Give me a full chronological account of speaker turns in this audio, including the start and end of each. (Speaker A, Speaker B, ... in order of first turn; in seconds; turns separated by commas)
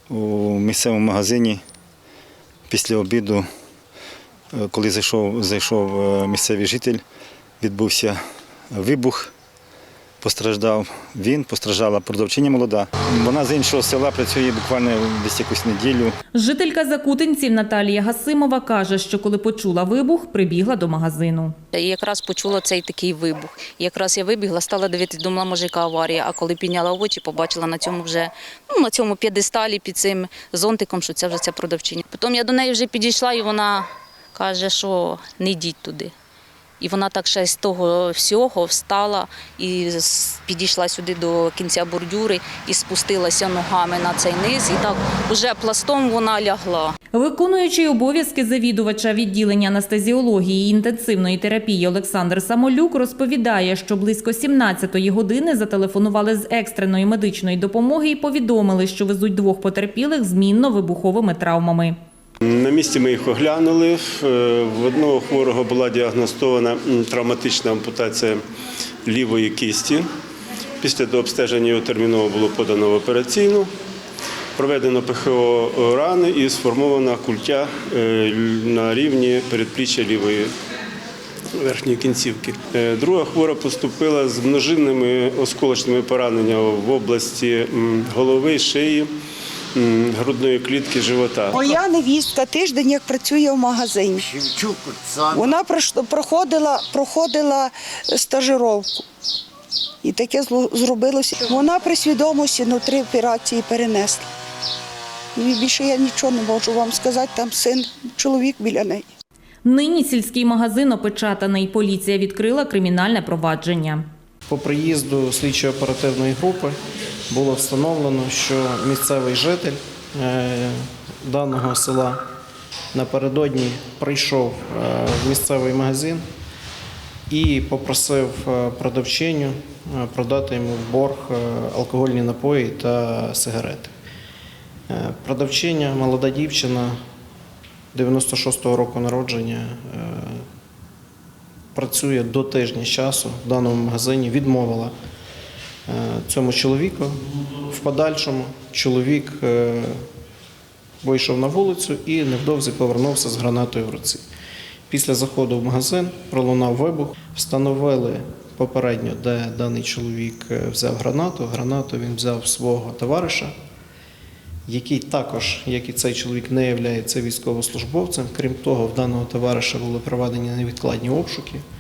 Speaker A: 0.1-1.6, Speaker A: 2.7-3.5, Speaker A: 4.5-7.0, Speaker A: 7.6-8.2, Speaker A: 8.7-9.3, Speaker A: 10.2-16.1, Speaker B: 16.3-21.5, Speaker C: 21.7-36.1, Speaker C: 36.8-46.9, Speaker B: 47.1-62.0, Speaker D: 62.4-68.4, Speaker D: 69.0-70.1, Speaker D: 70.8-73.7, Speaker D: 74.5-80.5, Speaker D: 81.5-89.1, Speaker D: 89.7-91.6, Speaker E: 91.5-94.4, Speaker E: 95.2-99.0, Speaker E: 100.0-104.3, Speaker E: 105.3-109.1, Speaker B: 109.6-114.0, Speaker F: 114.5-116.7, Speaker F: 117.3-122.2, Speaker F: 122.9-126.2, Speaker F: 127.3-133.9, Speaker F: 134.9-137.0, Speaker F: 137.9-140.4, Speaker F: 141.7-144.9, Speaker F: 145.9-147.2, Speaker F: 147.7-150.0, Speaker F: 151.0-154.2, Speaker F: 154.9-163.5, Speaker F: 164.7-171.6